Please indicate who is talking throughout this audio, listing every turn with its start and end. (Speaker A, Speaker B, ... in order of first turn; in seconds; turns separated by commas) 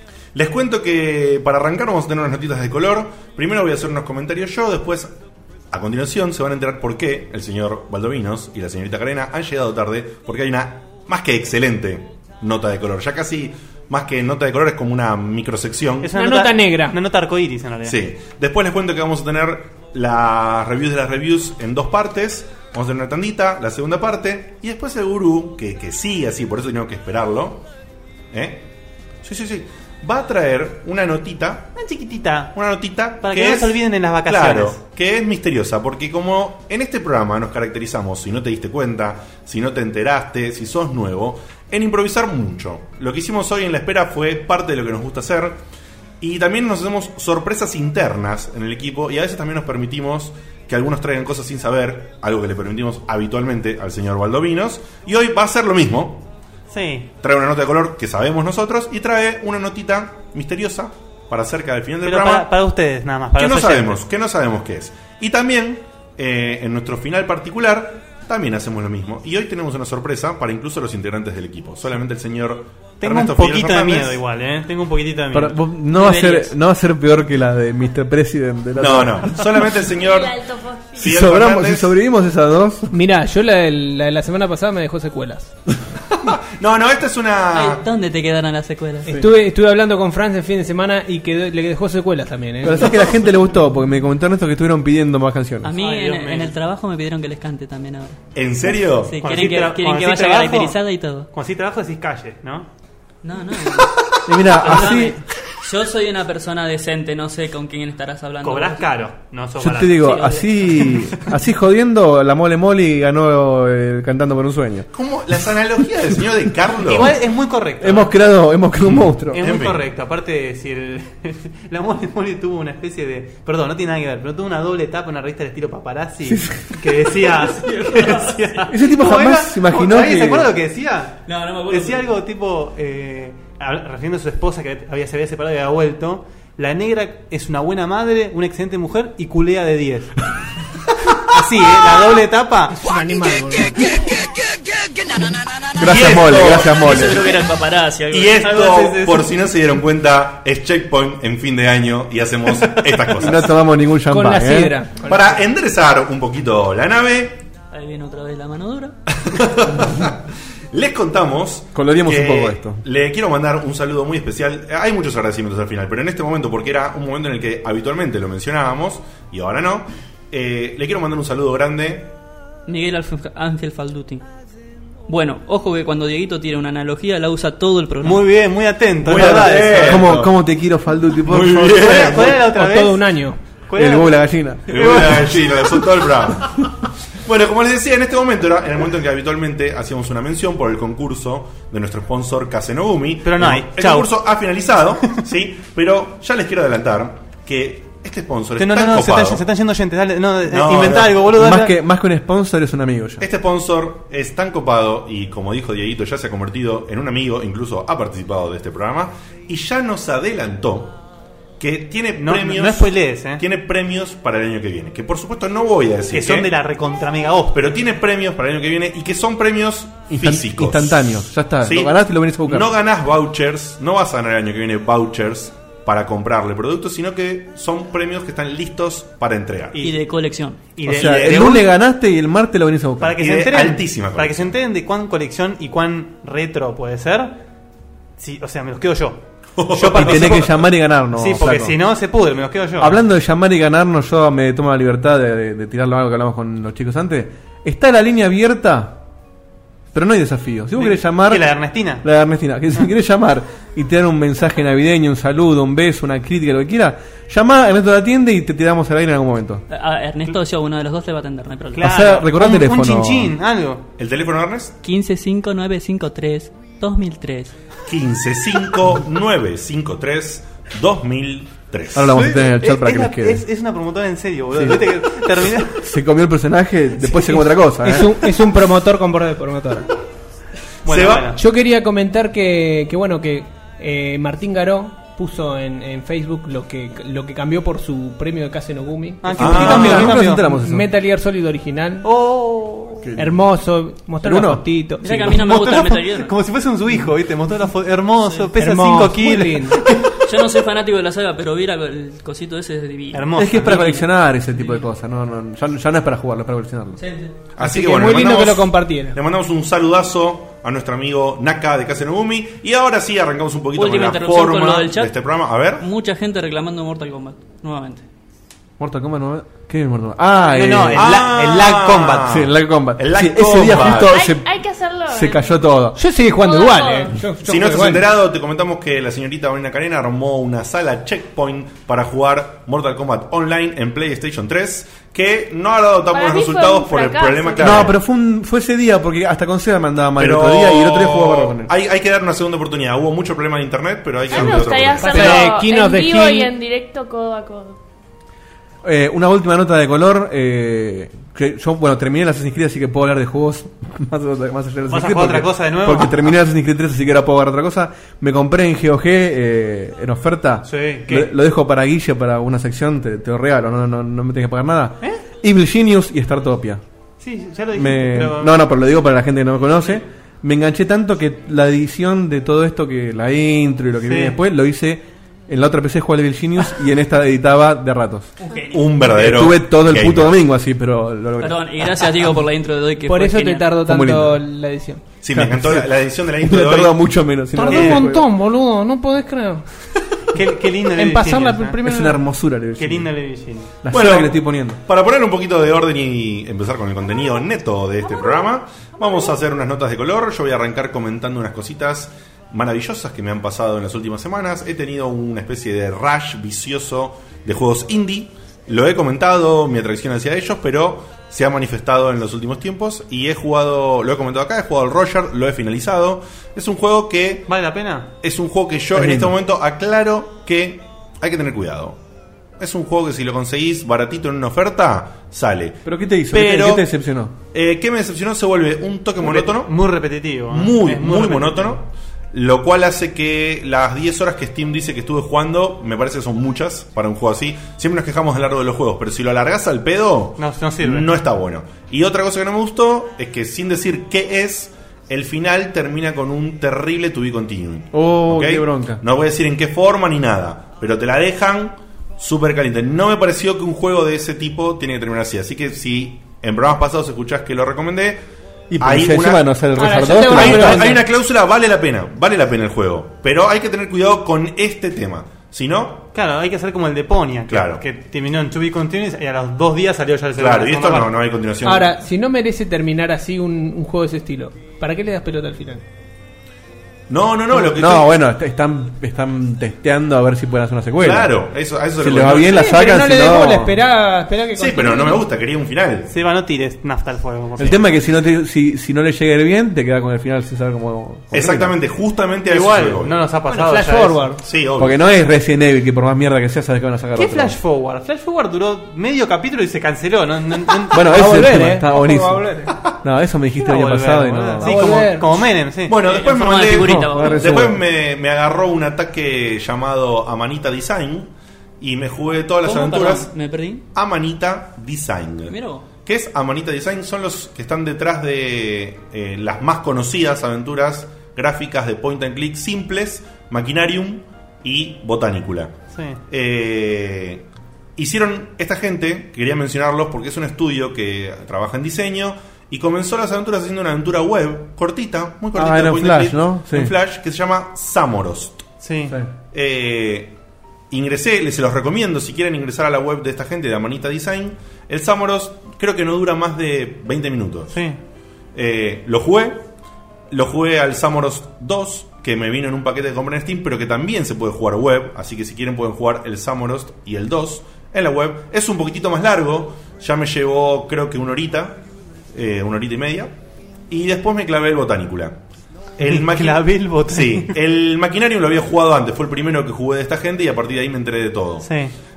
Speaker A: 0.3-5.1, Speaker A: 5.7-16.1, Speaker B: 16.0-18.0, Speaker C: 16.1-16.9, Speaker A: 17.9-27.6, Speaker A: 28.3-28.7, Speaker A: 29.2-31.7, Speaker B: 31.8-32.5, Speaker A: 32.5-45.6, Speaker B: 33.2-34.8, Speaker A: 46.2-56.3, Speaker B: 56.7-57.1, Speaker A: 57.2-62.5, Speaker B: 62.0-64.0, Speaker A: 63.4-74.2, Speaker B: 73.0-75.6, Speaker D: 75.3-79.5, Speaker E: 75.9-76.5, Speaker A: 78.8-80.3, Speaker F: 79.9-81.1, Speaker A: 81.0-82.0, Speaker D: 81.0-82.9, Speaker C: 82.9-85.5, Speaker A: 86.2-87.8, Speaker E: 87.5-89.1, Speaker C: 89.1-93.0, Speaker D: 92.6-95.7, Speaker E: 95.6-98.2, Speaker B: 95.8-96.5, Speaker A: 98.3-99.2, Speaker E: 99.0-101.3, Speaker B: 99.2-100.8, Speaker B: 101.3-102.7, Speaker E: 103.2-108.9, Speaker D: 104.3-105.2, Speaker B: 104.7-104.9, Speaker B: 108.4-110.2, Speaker D: 109.6-114.9, Speaker E: 110.0-110.9, Speaker A: 114.9-117.2, Speaker B: 116.8-118.1, Speaker D: 117.8-119.4, Speaker A: 118.8-119.8, Speaker B: 119.3-140.1, Speaker D: 126.3-126.7, Speaker E: 127.5-128.7, Speaker D: 128.7-130.5, Speaker E: 131.3-132.1, Speaker B: 141.2-142.8, Speaker C: 142.7-143.9, Speaker A: 145.8-147.3, Speaker D: 145.8-147.3, Speaker E: 146.8-148.5, Speaker A: 148.1-153.6, Speaker B: 148.4-149.3, Speaker D: 153.1-154.8, Speaker C: 154.1-155.3, Speaker A: 155.1-157.4, Speaker E: 157.7-158.9, Speaker A: 159.2-172.1, Speaker D: 161.8-162.8, Speaker E: 172.7-174.2, Speaker E: 175.1-178.3, Speaker B: 178.0-180.1, Speaker A: 179.0-180.4, Speaker D: 179.1-182.2, Speaker A: 181.3-182.4, Speaker B: 181.7-183.0, Speaker C: 182.5-183.4, Speaker B: 183.7-184.2, Speaker D: 183.8-185.2, Speaker A: 184.7-199.4, Speaker B: 184.8-185.0, Speaker B: 193.2-194.2, Speaker B: 198.6-201.8, Speaker A: 200.5-201.3, Speaker D: 201.3-203.2, Speaker A: 203.2-211.0, Speaker A: 211.6-216.5, Speaker B: 212.2-213.4, Speaker B: 216.1-217.7, Speaker A: 217.5-229.8, Speaker D: 220.1-222.7, Speaker E: 229.8-230.8, Speaker B: 230.8-231.7, Speaker D: 230.8-233.2, Speaker A: 231.0-231.5, Speaker B: 233.0-237.4, Speaker A: 233.2-234.5, Speaker B: 238.2-240.5, Speaker A: 239.6-240.5, Speaker D: 239.9-241.8, Speaker B: 241.2-243.0, Speaker D: 242.8-249.0, Speaker D: 249.9-259.6, Speaker B: 250.7-252.1, Speaker E: 259.7-261.9, Speaker B: 261.8-263.8, Speaker D: 261.8-263.3, Speaker A: 264.0-264.8, Speaker E: 264.8-267.5, Speaker A: 267.9-272.2, Speaker D: 271.9-273.4, Speaker B: 272.1-275.8, Speaker D: 275.8-278.1, Speaker C: 277.8-279.9, Speaker A: 280.9-281.4, Speaker B: 280.9-281.4, Speaker C: 281.4-292.1, Speaker B: 289.2-290.4, Speaker A: 289.4-290.1, Speaker D: 289.4-290.9, Speaker B: 292.0-293.1, Speaker D: 293.0-293.3, Speaker C: 293.2-295.3, Speaker D: 294.2-295.1, Speaker E: 295.0-296.3, Speaker B: 295.1-300.0, Speaker E: 298.2-298.5, Speaker C: 298.6-299.8, Speaker E: 300.2-304.1, Speaker B: 303.1-303.9, Speaker D: 303.4-307.0, Speaker E: 307.0-307.4, Speaker A: 307.6-315.9, Speaker C: 307.6-309.2, Speaker E: 313.8-315.1, Speaker E: 315.8-318.0, Speaker D: 318.8-321.1, Speaker B: 320.4-322.3, Speaker A: 321.0-324.1, Speaker D: 322.3-324.5, Speaker F: 323.8-325.6, Speaker D: 325.1-326.0, Speaker C: 326.0-328.1, Speaker F: 326.3-327.2, Speaker A: 327.4-338.0, Speaker F: 336.1-337.9, Speaker D: 337.6-341.7, Speaker A: 340.2-345.5, Speaker F: 344.3-347.8, Speaker C: 345.0-346.5, Speaker D: 348.8-366.8, Speaker B: 354.9-356.4, Speaker B: 360.6-361.3, Speaker B: 367.2-368.6, Speaker D: 367.8-378.3, Speaker B: 374.0-374.4, Speaker E: 378.4-379.3, Speaker A: 378.7-380.4, Speaker D: 379.2-381.7, Speaker E: 381.4-383.8, Speaker C: 383.1-385.0, Speaker D: 383.8-384.4, Speaker A: 385.2-387.0, Speaker D: 385.3-388.3, Speaker C: 387.5-389.6, Speaker B: 387.7-388.0, Speaker B: 390.3-391.8, Speaker C: 391.0-392.2, Speaker D: 391.8-393.1, Speaker B: 392.8-393.7, Speaker D: 393.8-394.8, Speaker A: 393.9-417.5, Speaker B: 417.5-418.1, Speaker A: 418.2-422.0, Speaker D: 418.9-419.3, Speaker A: 422.6-426.9, Speaker D: 425.9-427.3, Speaker A: 427.5-429.7, Speaker B: 429.2-431.8, Speaker A: 430.5-458.2, Speaker B: 440.4-441.1, Speaker D: 447.9-449.0, Speaker D: 458.7-461.0, Speaker A: 458.8-459.6, Speaker C: 459.8-461.0, Speaker A: 460.2-466.1, Speaker B: 466.1-471.1, Speaker A: 467.5-467.8, Speaker A: 470.4-471.9, Speaker C: 471.6-475.8, Speaker A: 477.1-478.2, Speaker D: 477.6-481.3, Speaker A: 481.0-482.7, Speaker D: 482.0-483.7, Speaker C: 482.5-485.2, Speaker A: 484.6-486.1, Speaker B: 486.1-487.9, Speaker D: 487.6-491.7, Speaker A: 491.3-493.2, Speaker B: 492.5-494.3, Speaker C: 493.5-494.4, Speaker A: 494.4-495.0, Speaker D: 494.8-497.6, Speaker B: 497.1-501.4, Speaker D: 500.9-502.5, Speaker C: 501.1-502.8, Speaker D: 503.0-504.8, Speaker B: 503.6-506.0, Speaker C: 504.6-505.3, Speaker A: 505.9-513.3, Speaker E: 506.0-507.7, Speaker D: 506.7-507.8, Speaker E: 512.6-513.8, Speaker A: 513.9-525.8, Speaker E: 515.5-515.9, Speaker B: 525.9-526.2, Speaker A: 526.3-538.6, Speaker D: 535.5-536.9, Speaker B: 538.8-539.2, Speaker A: 539.5-540.4, Speaker A: 540.9-547.8, Speaker B: 547.7-548.0, Speaker A: 548.5-549.6, Speaker A: 550.3-561.8, Speaker A: 562.3-563.3, Speaker A: 563.9-565.4, Speaker A: 566.0-571.7, Speaker B: 566.1-567.5, Speaker B: 571.6-571.9